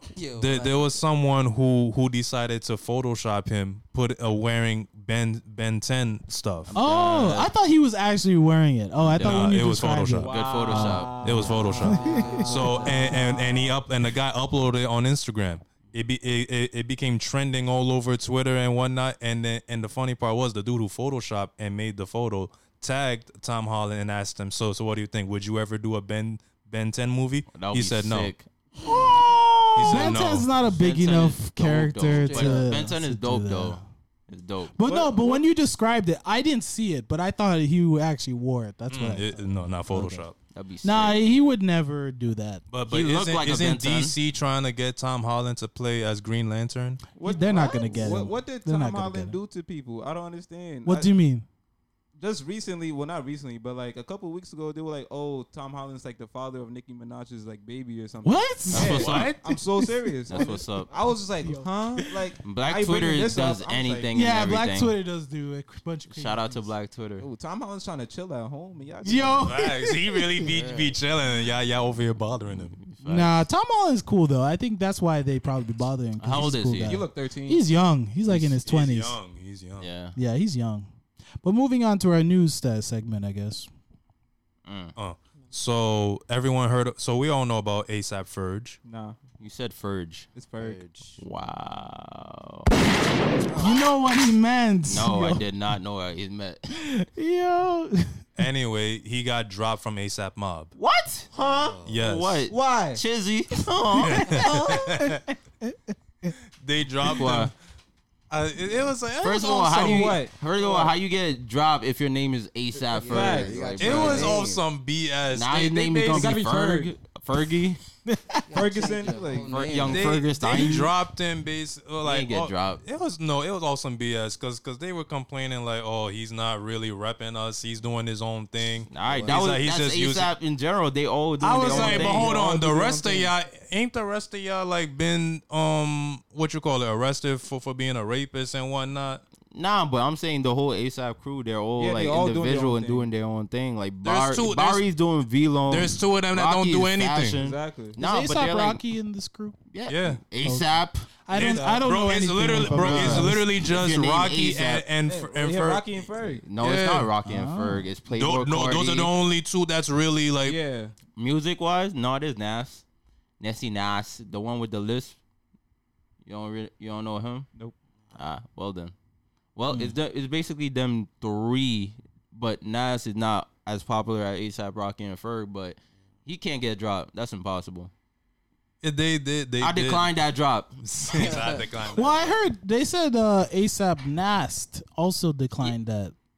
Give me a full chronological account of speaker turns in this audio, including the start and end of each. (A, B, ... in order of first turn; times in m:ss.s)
0:00.1-0:01.0 A
0:00.3-0:06.7 B
0:06.7-0:07.5 C
0:06.8-0:11.1 D
0:09.0-0:09.6 C
0:09.2-0:10.4 B
0:10.2-0:11.6 C
0:10.2-0:13.5 E
0:11.2-0:28.3 B
0:11.3-0:13.2 A
0:11.8-0:13.2 D
0:27.5-0:28.5 C
0:28.8-0:33.8 D
0:29.8-0:30.5 B
0:29.8-0:34.7 C
0:32.2-0:32.8 A
0:34.8-0:40.2 D
0:34.8-0:35.5 E
0:38.9-0:40.4 B
0:40.5-0:41.2 C
0:40.8-0:42.6 D
0:42.7-0:47.0 B
0:42.9-0:44.2 C
0:47.2-0:51.1 E
0:47.2-0:49.4 D
0:50.8-0:51.4 D
0:52.2-1:04.1 E
0:58.2-1:00.4 D
0:58.7-0:59.4 C
0:58.8-0:59.4 B
1:00.3-1:00.9 C
1:01.4-1:02.1 D
1:02.4-1:04.9 C
1:04.1-1:06.7 D
1:06.1-1:07.2 C
1:07.2-1:09.6 E
1:09.0-1:10.4 D
1:09.4-1:12.8 B
1:10.4-1:11.0 A
1:12.8-1:13.4 C
1:13.0-1:19.2 D
1:16.2-1:17.0 C
1:16.8-1:17.6 E
1:18.3-1:19.9 B
1:19.8-1:20.2 C
1:20.2-1:20.9 D
1:21.4-1:23.7 D
1:24.6-1:25.0 C
1:25.0-1:28.8 B
1:28.9-1:29.2 E
1:29.4-1:30.3 C
1:30.4-1:30.9 E
1:30.6-1:31.2 A
1:31.2-1:32.7 C
1:33.5-1:33.8 E
1:33.6-1:35.4 D
1:34.9-1:36.7 C
1:36.7-1:38.2 D
1:38.4-1:40.7 B
1:40.8-1:44.8 C
1:41.4-1:42.0 A
1:41.8-1:42.5 B
1:42.5-1:43.0 E
1:44.0-1:45.2 B
1:44.0-1:46.3 D
1:46.6-1:47.5 B
1:47.1-1:47.5 C
1:48.3-1:49.9 B
1:49.2-1:50.2 D
1:49.2-1:54.4 C
1:49.8-1:50.9 E
1:52.9-1:54.6 A
1:53.0-1:54.4 E
1:53.8-1:56.4 B
1:55.3-1:57.8 C
1:56.1-1:56.9 E
1:58.1-1:58.5 D
1:58.5-2:00.1 A
1:58.5-1:59.9 E
1:59.5-2:00.9 C
1:59.9-2:10.3 B
2:02.0-2:02.8 C
2:08.9-2:12.3 C
2:09.1-2:09.4 E
2:11.4-2:12.3 D
2:11.6-2:19.2 B
2:11.9-2:13.3 E
2:19.5-2:28.8 C
2:21.8-2:23.1 E
2:24.0-2:24.9 B
2:25.7-2:27.4 B
2:27.4-2:28.0 E
2:28.0-2:29.6 D
2:29.7-2:31.0 C
2:29.9-2:30.2 B
2:30.4-2:30.7 D
2:31.2-2:33.4 D
2:31.3-2:35.9 B
2:31.3-2:31.8 E
2:32.6-2:34.9 C
2:32.9-2:33.2 E
2:35.1-2:36.4 E
2:36.4-2:39.1 C
2:36.6-2:37.1 B
2:37.3-2:37.9 D
2:38.1-2:40.6 B
2:40.4-2:40.9 E
2:41.2-2:42.8 C
2:43.4-2:45.2 C
2:46.2-2:47.5 C
2:48.1-2:48.9 C
2:49.6-2:57.9 C
2:58.8-3:00.1 B
2:59.6-3:00.7 C
3:00.8-3:02.4 B
3:01.1-3:01.6 A
3:01.9-3:06.1 D